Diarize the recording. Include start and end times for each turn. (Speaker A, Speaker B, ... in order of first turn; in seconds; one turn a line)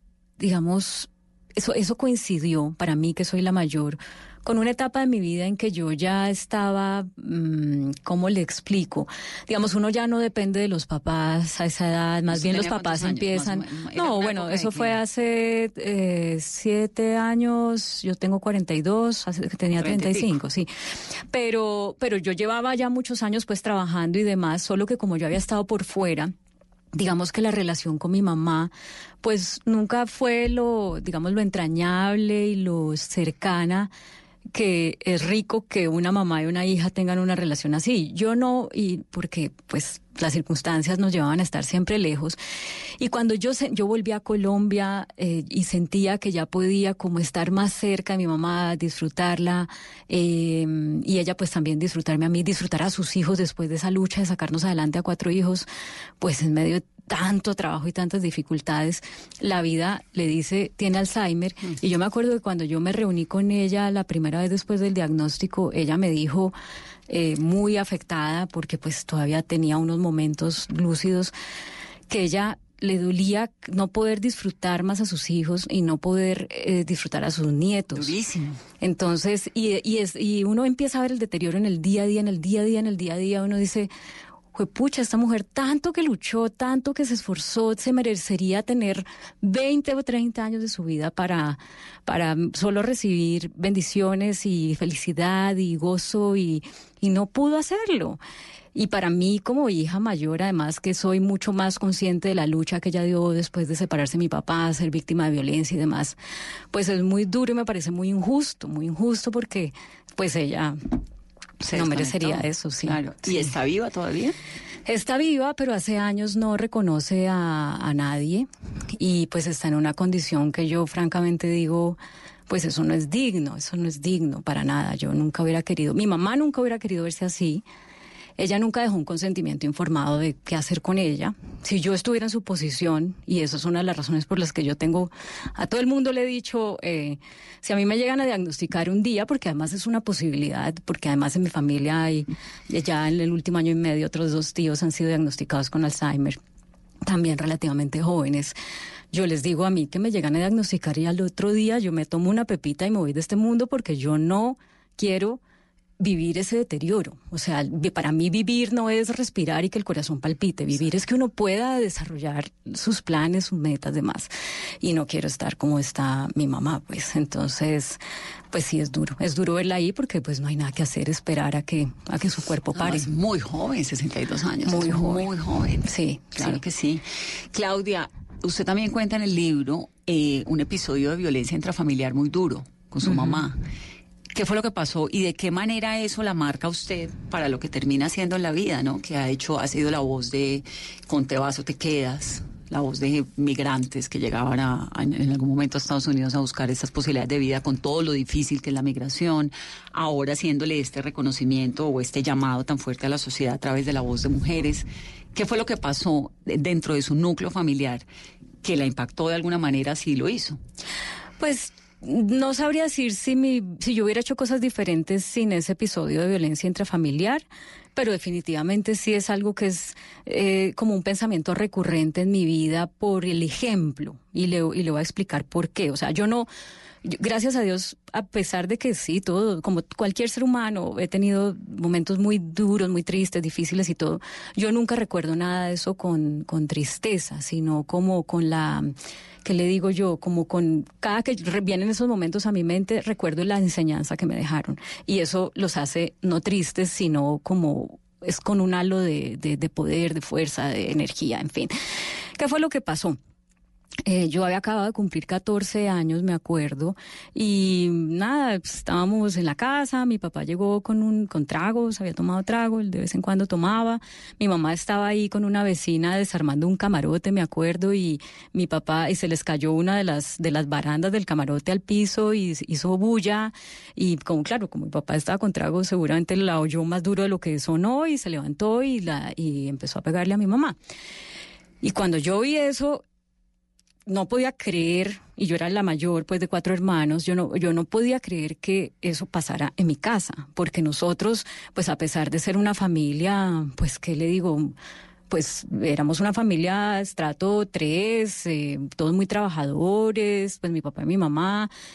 Speaker A: 0.4-20.7
Speaker B: 12.3-15.0
Speaker B: 19.8-20.3
Speaker A: 21.3-26.3
Speaker A: 26.9-33.9
Speaker A: 34.5-42.4
Speaker A: 43.0-55.7
Speaker A: 56.2-66.5
Speaker A: 67.1-71.3
Speaker A: 72.1-78.1
Speaker B: 77.9-78.6
Speaker A: 78.8-83.9
Speaker A: 84.5-98.2
Speaker A: 98.7-106.2
Speaker A: 106.7-110.8
Speaker B: 111.6-114.3
Speaker A: 111.7-113.5
Speaker A: 114.8-127.6
Speaker A: 128.4-146.4
Speaker A: 147.1-148.5
Speaker A: 149.1-155.4
Speaker A: 156.0-168.0
Speaker A: 168.5-173.1
Speaker B: 172.7-175.8
Speaker A: 174.7-175.3
Speaker A: 175.8-176.6
Speaker B: 176.3-183.6
Speaker A: 183.1-183.4
Speaker B: 184.3-208.0
Speaker B: 208.6-210.6
Speaker A: 211.4-226.5
Speaker A: 227.0-238.9
Speaker A: 239.4-251.7
Speaker A: 252.4-253.2
Speaker A: 254.1-280.8
Speaker A: 281.8-283.0
Speaker A: 284.1-294.7
Speaker A: 295.3-301.7